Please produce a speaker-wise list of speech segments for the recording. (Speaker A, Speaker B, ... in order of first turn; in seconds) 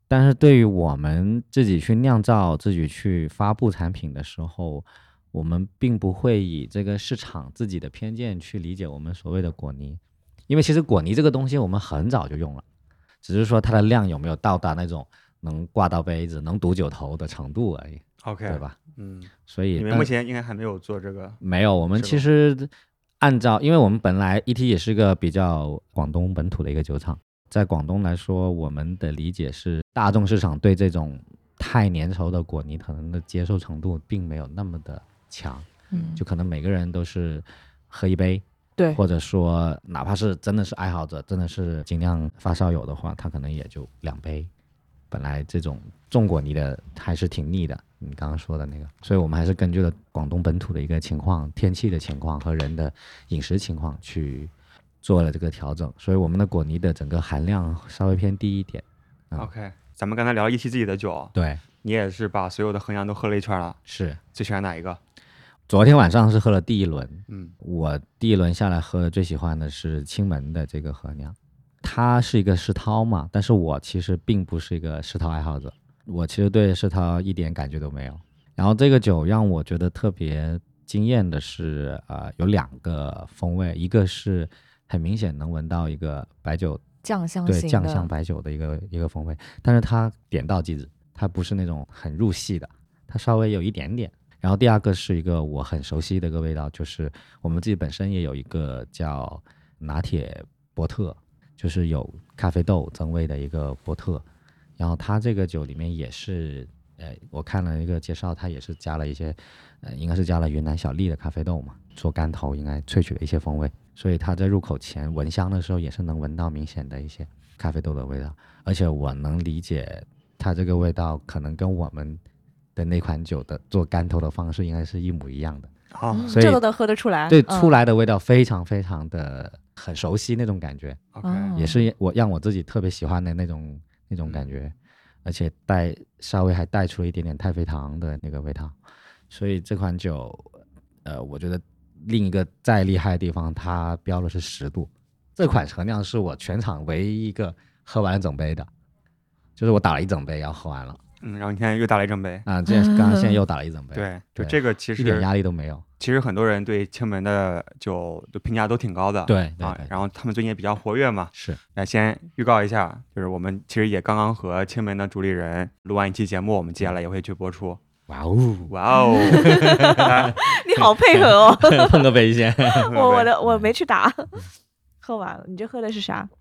Speaker A: 0.1-12.6, 13.2-18.8, 19.5-20.1, 21.4-38.4, 39.0-44.5, 45.1-59.5, 61.3-61.6, 63.9-64.2, 65.7-86.8, 87.5-104.2, 104.8-122.2, 122.8-125.7, 126.3-126.7, 127.3-131.0, 131.6-134.7, 135.2-138.7, 139.3-140.5, 141.1-148.7, 149.6-151.0, 152.4-155.8, 159.3-159.9, 168.1-168.7, 169.2-173.7
Speaker B: 18.2-21.4, 21.9-22.2, 59.4-63.8, 64.3-65.0, 67.3-67.5, 125.9-126.3, 131.1-131.5, 151.2-152.4, 153.9-155.3, 156.0-167.8, 168.7-170.4, 172.9-173.3
Speaker C: 35.9-36.2, 87.0-88.1, 126.1-127.7, 131.2-131.9, 152.7-153.4, 168.9-172.0, 172.9-174.4, 175.0-176.3